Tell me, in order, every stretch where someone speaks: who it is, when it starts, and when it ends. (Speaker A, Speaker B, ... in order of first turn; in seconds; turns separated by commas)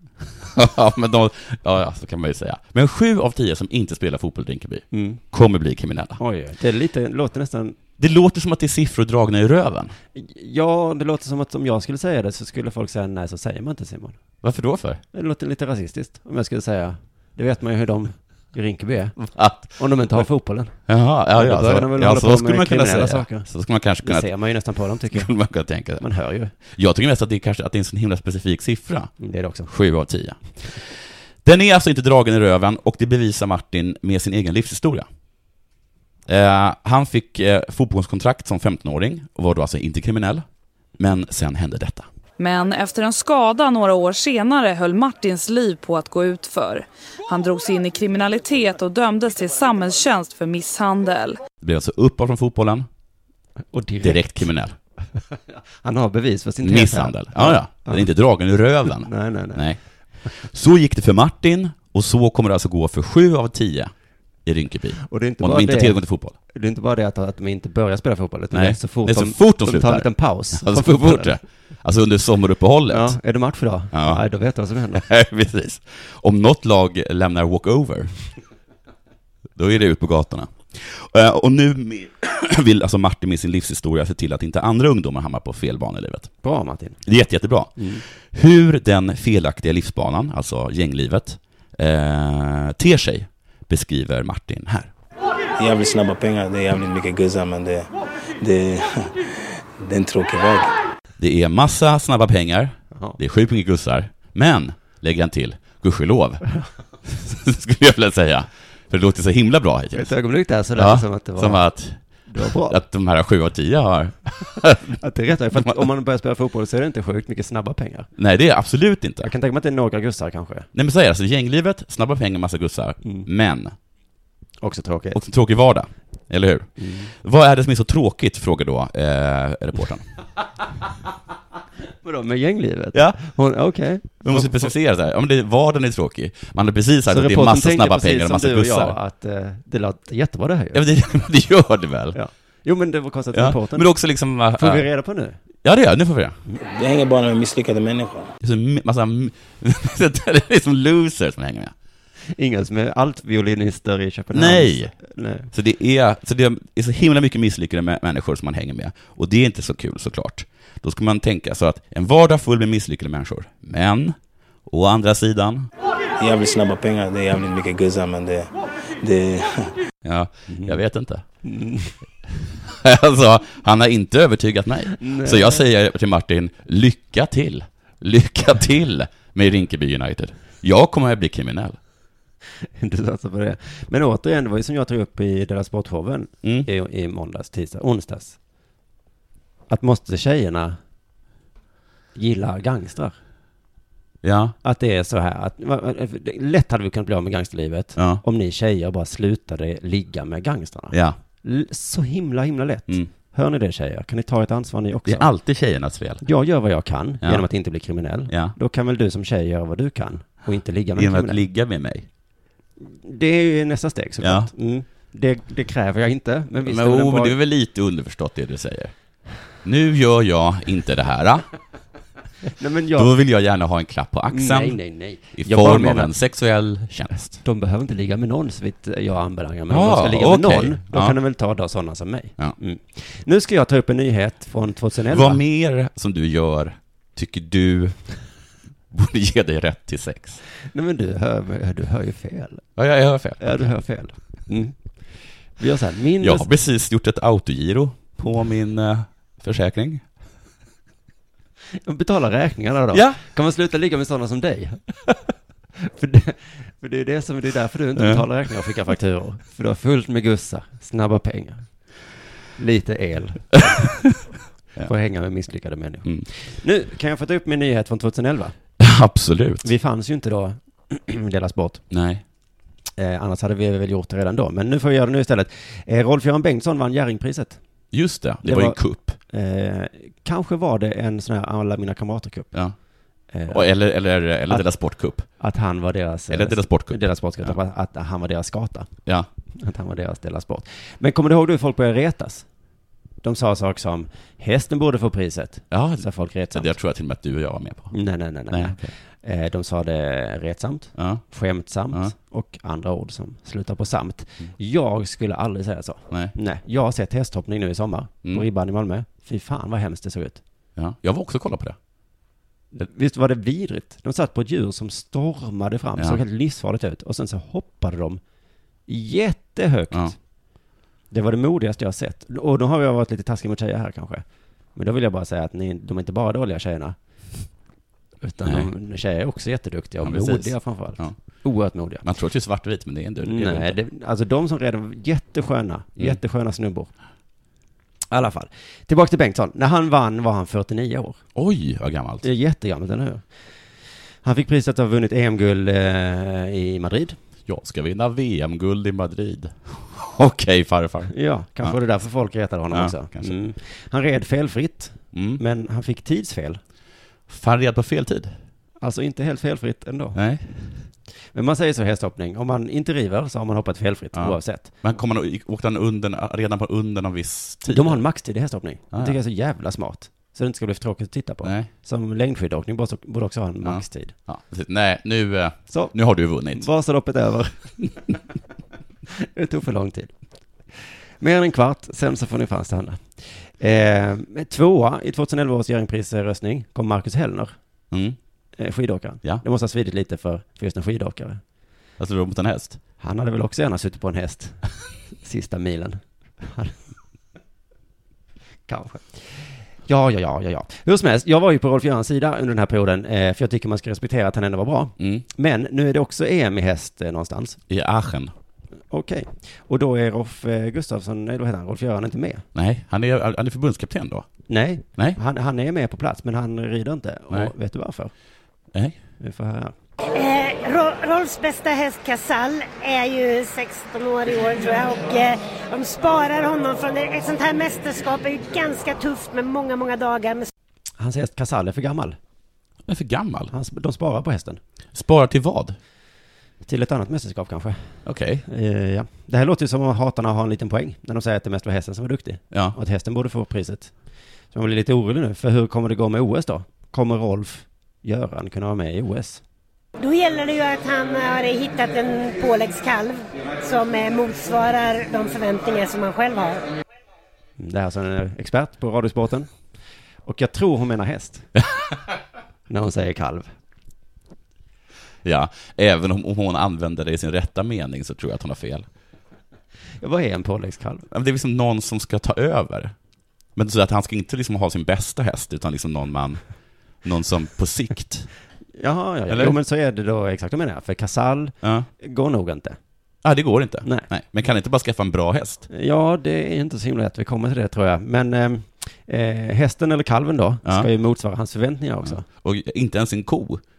Speaker A: 0.5-6.2, Speaker B: 4.9-5.2, Speaker B: 6.2-7.8, Speaker A: 8.0-9.9, Speaker B: 10.2-14.2, Speaker A: 14.4-15.0, Speaker B: 15.1-23.5, Speaker A: 19.2-19.8, Speaker A: 20.9-24.3, Speaker B: 24.0-25.3, Speaker A: 25.1-26.1, Speaker B: 26.0-26.5, Speaker A: 26.7-29.1, Speaker B: 29.2-29.7, Speaker A: 29.7-35.1, Speaker A: 36.3-40.4, Speaker A: 41.0-42.1, Speaker C: 42.4-51.4, Speaker A: 51.6-52.9, Speaker B: 53.7-54.5, Speaker A: 54.0-54.8, Speaker B: 55.8-58.1, Speaker A: 56.6-63.9, Speaker B: 58.9-59.7, Speaker A: 64.4-66.4, Speaker B: 65.1-71.4, Speaker A: 68.5-73.2, Speaker B: 72.9-75.0, Speaker A: 73.9-74.2, Speaker A: 74.9-78.2, Speaker A: 79.5-86.3, Speaker B: 86.4-87.0, Speaker A: 87.0-94.9, Speaker B: 87.8-88.0, Speaker D: 95.6-100.8, Speaker A: 101.2-106.5, Speaker B: 102.9-103.2, Speaker A: 107.0-110.2, Speaker B: 109.9-111.7, Speaker A: 110.7-115.0, Speaker B: 112.3-112.8, Speaker B: 115.0-118.1, Speaker A: 118.2-119.3, Speaker B: 119.2-120.7, Speaker A: 120.7-123.7, Speaker B: 124.6-125.2, Speaker A: 125.1-130.1, Speaker B: 126.8-127.1, Speaker B: 132.0-134.7, Speaker A: 132.9-133.2, Speaker A: 134.2-139.0, Speaker B: 137.1-140.8, Speaker A: 140.7-142.2, Speaker B: 142.1-143.9, Speaker A: 143.3-144.9, Speaker B: 144.6-145.4, Speaker A: 145.6-146.4, Speaker D: 146.6-148.3, Speaker A: 148.4-151.7, Speaker B: 152.4-155.5, Speaker A: 154.3-165.7, Speaker D: 166.2-169.7, Speaker A: 170.0-171.2, Speaker B: 170.5-170.8, Speaker B: 171.4-172.0, Speaker A: 172.6-181.8, Speaker B: 175.0-175.6, Speaker B: 182.8-188.4, Speaker A: 186.4-186.7, Speaker B: 189.7-190.8, Speaker B: 192.2-193.2, Speaker A: 194.2-194.6, Speaker B: 194.6-205.3, Speaker A: 198.0-198.2, Speaker A: 200.9-201.2, Speaker A: 205.1-206.2, Speaker B: 206.2-211.4, Speaker A: 208.3-208.6, Speaker A: 210.9-212.1, Speaker B: 212.8-217.4, Speaker A: 214.2-214.5, Speaker A: 216.6-218.9, Speaker A: 219.5-221.5, Speaker B: 222.5-223.2, Speaker A: 223.0-227.4, Speaker B: 224.3-226.1, Speaker B: 227.4-235.4, Speaker A: 229.7-231.2, Speaker A: 235.1-238.1, Speaker A: 238.9-240.4, Speaker B: 240.7-242.7, Speaker A: 242.8-243.7, Speaker B: 243.4-246.5, Speaker A: 246.2-250.1, Speaker B: 251.8-254.8, Speaker A: 252.9-253.2, Speaker B: 255.8-261.7, Speaker A: 258.0-258.3, Speaker B: 262.6-263.9, Speaker B: 264.8-268.6, Speaker A: 268.8-269.7, Speaker B: 269.6-271.8, Speaker A: 271.9-272.2, Speaker B: 273.0-277.6, Speaker A: 277.9-279.2, Speaker B: 278.4-282.5, Speaker B: 283.3-283.7, Speaker A: 283.5-285.3, Speaker B: 284.5-288.9, Speaker A: 286.3-287.6, Speaker B: 289.6-292.5, Speaker B: 293.2-296.7, Speaker A: 295.7-298.0, Speaker B: 297.9-310.4, Speaker A: 298.5-298.9, Speaker A: 301.0-301.2, Speaker A: 310.8-311.8, Speaker B: 312.7-318.2, Speaker B: 318.9-320.1, Speaker B: 321.1-327.0, Speaker B: 328.2-332.0, Speaker A: 328.4-328.7, Speaker A: 330.0-331.4, Speaker A: 332.0-333.8, Speaker B: 333.2-336.9, Speaker B: 338.1-341.2, Speaker A: 341.4-342.3, Speaker B: 342.2-343.3, Speaker B: 344.2-347.2, Speaker A: 347.5-351.8, Speaker B: 351.1-356.6, Speaker A: 352.7-353.4, Speaker A: 355.1-355.4, Speaker A: 357.3-358.4, Speaker B: 358.8-360.2, Speaker A: 360.1-360.9, Speaker B: 361.3-364.8, Speaker A: 364.1-368.1, Speaker B: 367.7-374.1, Speaker A: 368.9-369.2, Speaker A: 371.4-371.7, Speaker A: 373.6-376.7, Speaker B: 375.7-375.9, Speaker B: 376.5-378.2, Speaker B: 379.2-380.1, Speaker B: 381.2-387.6, Speaker A: 387.9-388.2, Speaker B: 388.6-391.4, Speaker A: 392.0-392.8, Speaker B: 393.0-394.6, Speaker B: 395.2-396.8, Speaker B: 398.7-407.6, Speaker A: 405.0-405.3, Speaker A: 407.7-408.3, Speaker B: 408.9-412.4, Speaker A: 412.6-414.3, Speaker B: 414.5-418.1, Speaker B: 419.2-419.7, Speaker E: 420.1-430.5, Speaker B: 431.0-432.2, Speaker A: 432.9-433.5, Speaker B: 433.5-434.6, Speaker A: 434.9-435.8, Speaker B: 436.6-443.9, Speaker A: 438.1-438.4, Speaker B: 444.5-449.4, Speaker E: 450.0-456.7, Speaker B: 457.6-459.5, Speaker B: 460.2-461.5, Speaker B: 462.7-463.5, Speaker A: 465.2-468.9, Speaker B: 470.0-471.1, Speaker A: 471.1-472.9, Speaker A: 473.6-476.4, Speaker A: 477.0-478.3, Speaker B: 478.8-482.8, Speaker A: 479.3-479.6, Speaker A: 481.6-481.9, Speaker A: 483.2-485.7, Speaker B: 485.7-492.2, Speaker A: 492.1-493.6